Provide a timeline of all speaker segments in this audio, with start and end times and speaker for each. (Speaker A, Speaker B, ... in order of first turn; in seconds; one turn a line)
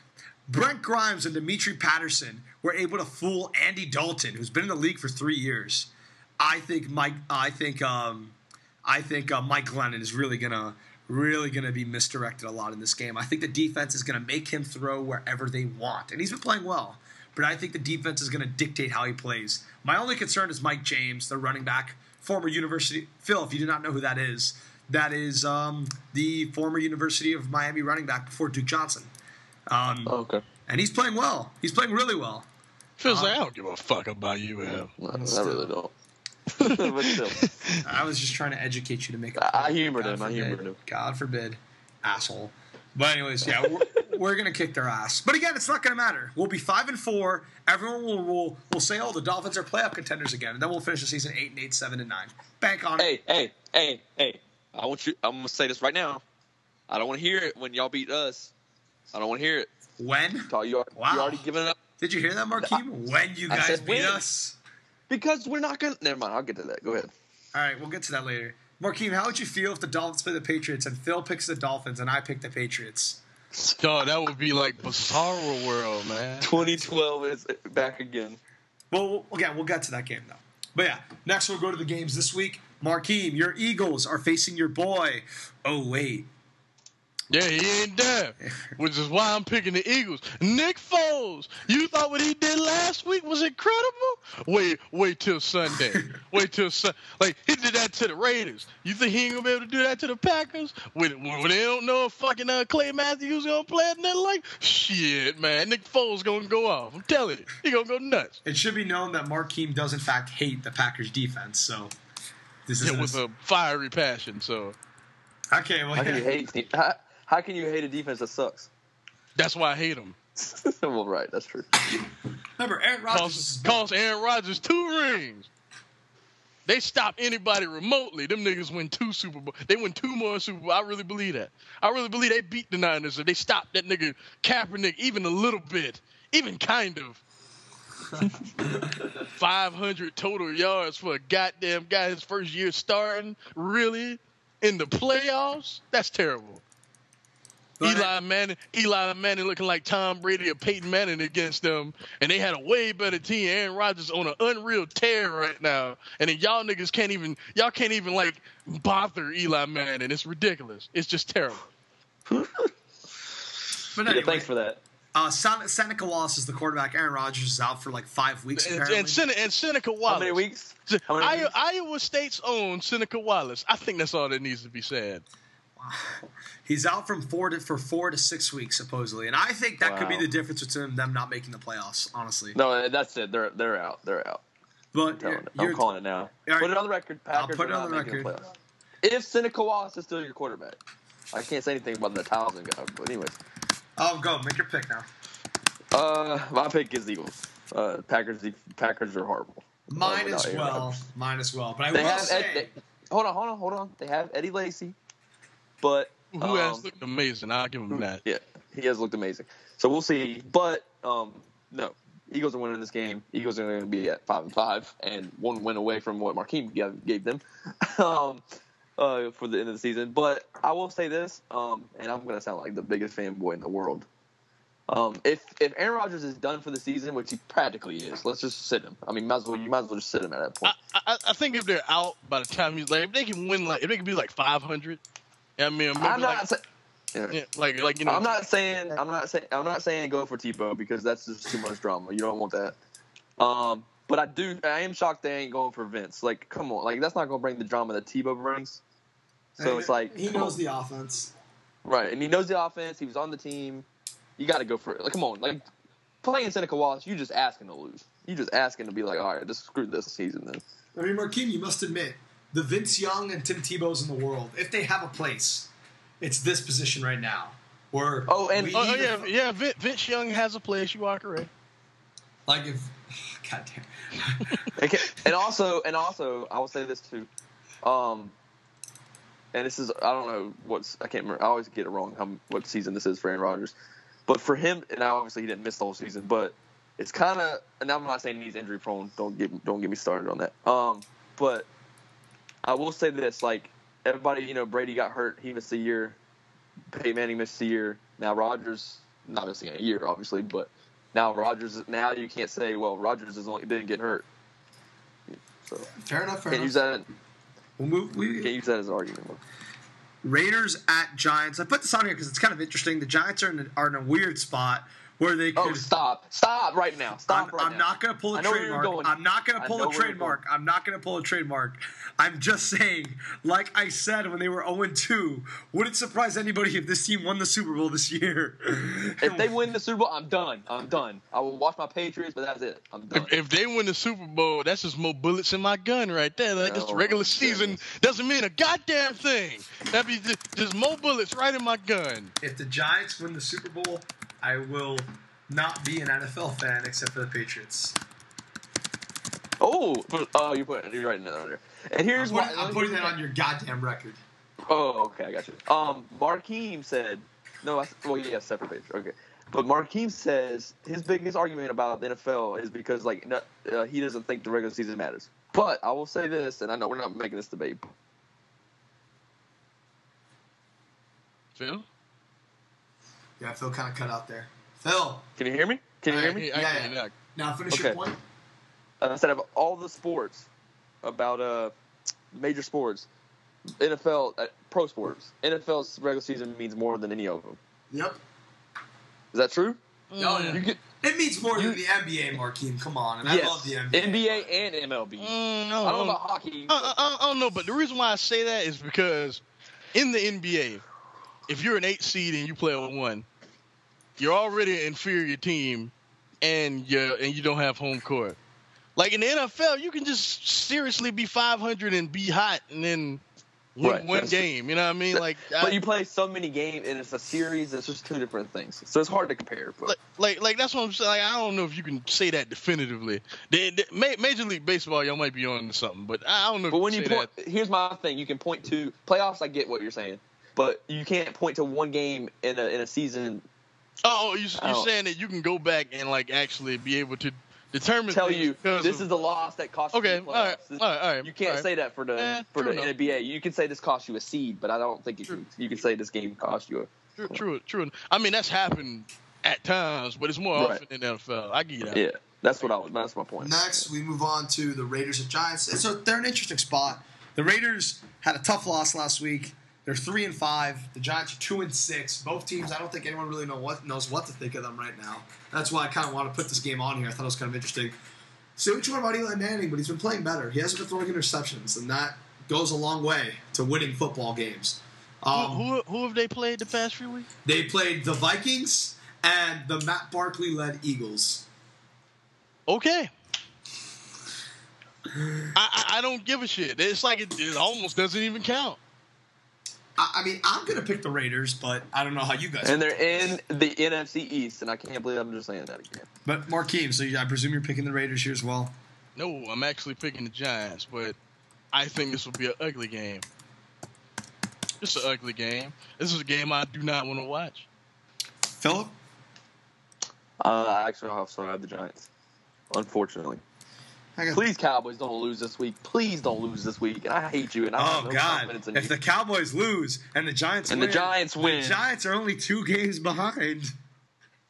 Speaker A: 0.5-29.1
Speaker A: 29.7-30.1
Speaker B: 30.1-30.4
Speaker A: 30.7-32.5
Speaker C: 33.0-34.9
Speaker A: 33.0-33.4
Speaker B: 34.9-35.9
Speaker A: 35.1-35.7
Speaker B: 36.5-37.4
Speaker C: 36.6-37.8
Speaker A: 37.8-53.1
Speaker B: 39.4-40.8
Speaker B: 43.5-43.9
Speaker B: 53.0-56.2
Speaker B: 56.9-58.5
Speaker B: 59.1-59.7
Speaker A: 60.0-61.4
Speaker B: 60.5-61.8
Speaker A: 62.0-64.6
Speaker B: 63.5-64.2
Speaker B: 65.1-67.1
Speaker A: 67.5-73.2
Speaker C: 73.8-76.5
Speaker B: 76.4-78.4
Speaker A: 78.9-86.3
Speaker C: 87.3-108.4
Speaker A: 108.4-111.9
Speaker A: 112.7-113.2
Speaker C: 112.8-114.7
Speaker A: 115.5-116.3
Speaker B: 116.0-118.7
Speaker C: 119.3-120.2
Speaker B: 120.4-121.7
Speaker A: 121.9-123.8
Speaker C: 123.1-125.5
Speaker C: 126.7-137.2
Speaker A: 138.1-139.1
Speaker C: 139.3-146.6
Speaker A: 147.8-148.1
Speaker C: 147.8-161.7
Speaker B: 162.3-162.7
Speaker A: 163.9-164.5
Speaker B: 164.0-164.8
Speaker A: 165.1-169.2
Speaker C: 168.6-175.2
Speaker B: 170.1-171.5
Speaker A: 175.8-182.6
Speaker B: 179.8-180.3
Speaker B: 182.5-184.4
Speaker A: 184.9-185.9
Speaker B: 185.2-188.5
Speaker A: 186.4-186.8
Speaker A: 187.3-188.3
Speaker B: 189.0-190.8
Speaker B: 191.3-193.4
Speaker A: 194.0-195.1
Speaker B: 195.9-200.9
Speaker A: 199.9-202.7
Speaker B: 201.9-204.9
Speaker B: 205.8-206.8
Speaker C: 206.3-208.2
Speaker B: 207.9-218.4
Speaker B: 219.0-224.1
Speaker B: 224.9-230.7
Speaker C: 230.6-235.0
Speaker C: 235.6-236.4
Speaker B: 236.0-236.6
Speaker C: 237.3-238.3
Speaker B: 238.0-242.8
Speaker B: 243.4-248.8
Speaker A: 249.6-251.3
Speaker B: 249.6-250.6
Speaker B: 251.8-253.9
Speaker B: 254.4-255.6
Speaker B: 256.2-260.6
Speaker A: 260.9-265.7
Speaker A: 266.2-269.3
Speaker B: 268.3-269.1
Speaker C: 268.7-271.5
Speaker A: 272.5-274.6
Speaker B: 274.7-277.3
Speaker B: 277.8-278.3
Speaker B: 279.5-283.7
Speaker B: 284.3-291.7
Speaker B: 292.6-296.2
Speaker B: 296.9-304.2
Speaker A: 305.9-306.7
Speaker B: 306.5-307.1
Speaker A: 307.8-308.5
Speaker B: 308.4-309.4
Speaker A: 310.2-315.9
Speaker B: 315.6-320.4
Speaker A: 317.3-329.5
Speaker B: 329.2-333.3
Speaker C: 333.1-342.3
Speaker B: 336.6-337.8
Speaker A: 342.4-348.0
Speaker B: 349.6-353.1
Speaker A: 352.1-354.2
Speaker B: 354.7-367.9
Speaker C: 371.6-371.9
Speaker A: 373.4-375.2
Speaker B: 375.4-376.5
Speaker C: 376.1-377.1
Speaker A: 376.5-378.2
Speaker B: 377.7-378.0
Speaker B: 379.0-380.5
Speaker B: 381.0-381.7
Speaker B: 382.3-383.1
Speaker B: 383.8-387.6
Speaker A: 387.9-388.2
Speaker B: 389.3-389.8
Speaker C: 390.1-390.6
Speaker A: 390.2-394.5
Speaker B: 390.5-390.8
Speaker B: 393.2-396.9
Speaker C: 395.2-399.4
Speaker C: 399.9-400.8
Speaker C: 401.5-403.2
Speaker C: 404.2-408.4
Speaker C: 408.9-413.2
Speaker C: 413.8-415.8
Speaker B: 413.8-414.4
Speaker B: 415.1-419.9
Speaker C: 419.9-427.3
Speaker B: 426.7-433.4
Speaker C: 434.0-439.1
Speaker B: 434.6-434.9
Speaker B: 438.1-447.4
Speaker C: 439.9-442.9
Speaker C: 447.2-452.0
Speaker B: 450.5-450.8
Speaker B: 451.9-453.9
Speaker A: 453.4-467.9
Speaker A: 468.6-475.6
Speaker C: 475.3-477.3
Speaker A: 477.4-481.4
Speaker C: 482.7-483.1
Speaker A: 485.1-485.5
Speaker C: 485.5-488.8
Speaker A: 490.0-492.9
Speaker B: 492.6-496.1
Speaker A: 496.2-498.7
Speaker C: 499.1-501.1
Speaker C: 501.7-503.2
Speaker C: 504.8-507.6
Speaker A: 508.6-508.9
Speaker B: 510.4-512.1
Speaker B: 512.7-513.4
Speaker A: 514.1-514.4
Speaker B: 514.3-518.9
Speaker A: 517.8-523.7
Speaker B: 520.7-521.8